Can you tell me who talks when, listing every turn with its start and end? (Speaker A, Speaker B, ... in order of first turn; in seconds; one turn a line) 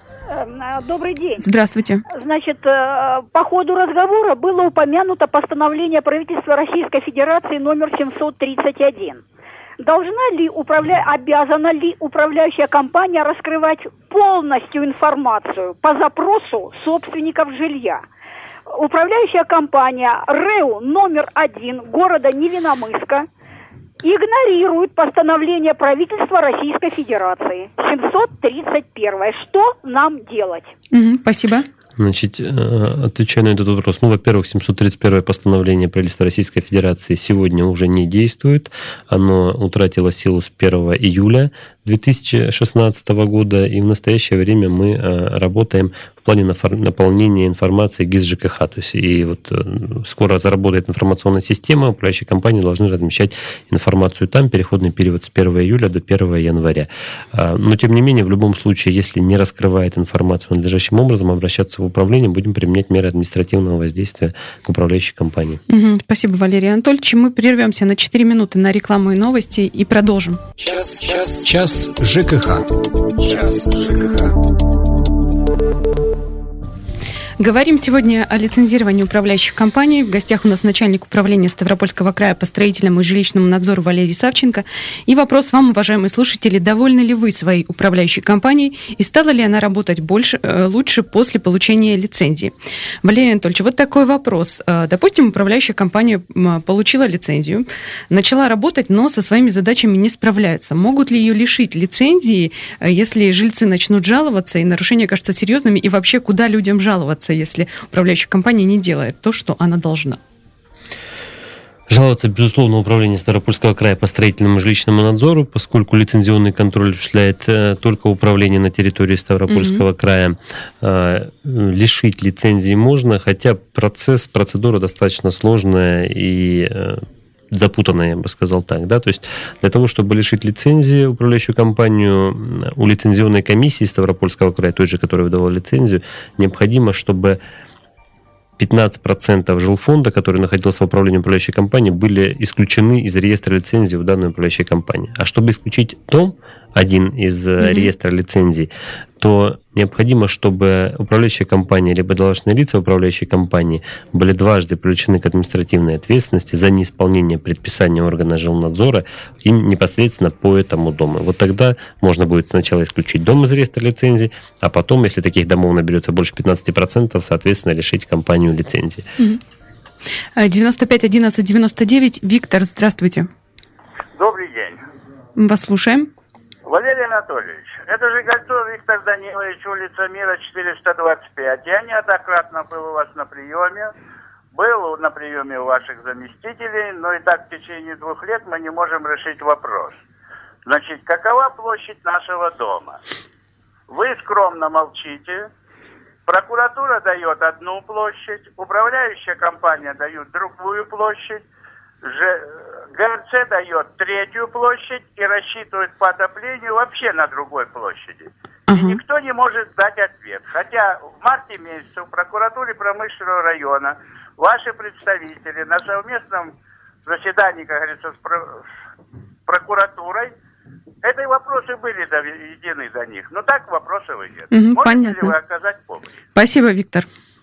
Speaker A: 0.3-1.4
Speaker B: 1.4-2.0
Speaker A: 2.1-9.2
Speaker A: 9.8-18.0
Speaker A: 18.7-23.3
Speaker A: 24.0-30.7
Speaker B: 30.9-31.7
Speaker C: 32.0-65.6
Speaker B: 65.7-70.4
Speaker D: 70.6-74.3
Speaker B: 77.4-92.5
Speaker B: 93.0-110.2
Speaker C: 111.9-137.4
Speaker B: 119.5-119.8
Speaker C: 138.6-169.1
Speaker B: 147.6-147.9
Speaker B: 170.4-173.3
Speaker E: 174.2-174.8
Speaker B: 175.4-176.1
Speaker E: 176.7-183.9
Speaker E: 184.5-190.0
Speaker E: 190.7-193.0
Speaker E: 193.9-195.5
Speaker E: 196.3-201.4
Speaker E: 202.0-216.5
Speaker B: 208.7-209.0
Speaker E: 217.1-218.6
Speaker E: 219.5-220.3
Speaker E: 221.0-226.1
Speaker B: 224.5-225.3
Speaker B: 226.4-227.1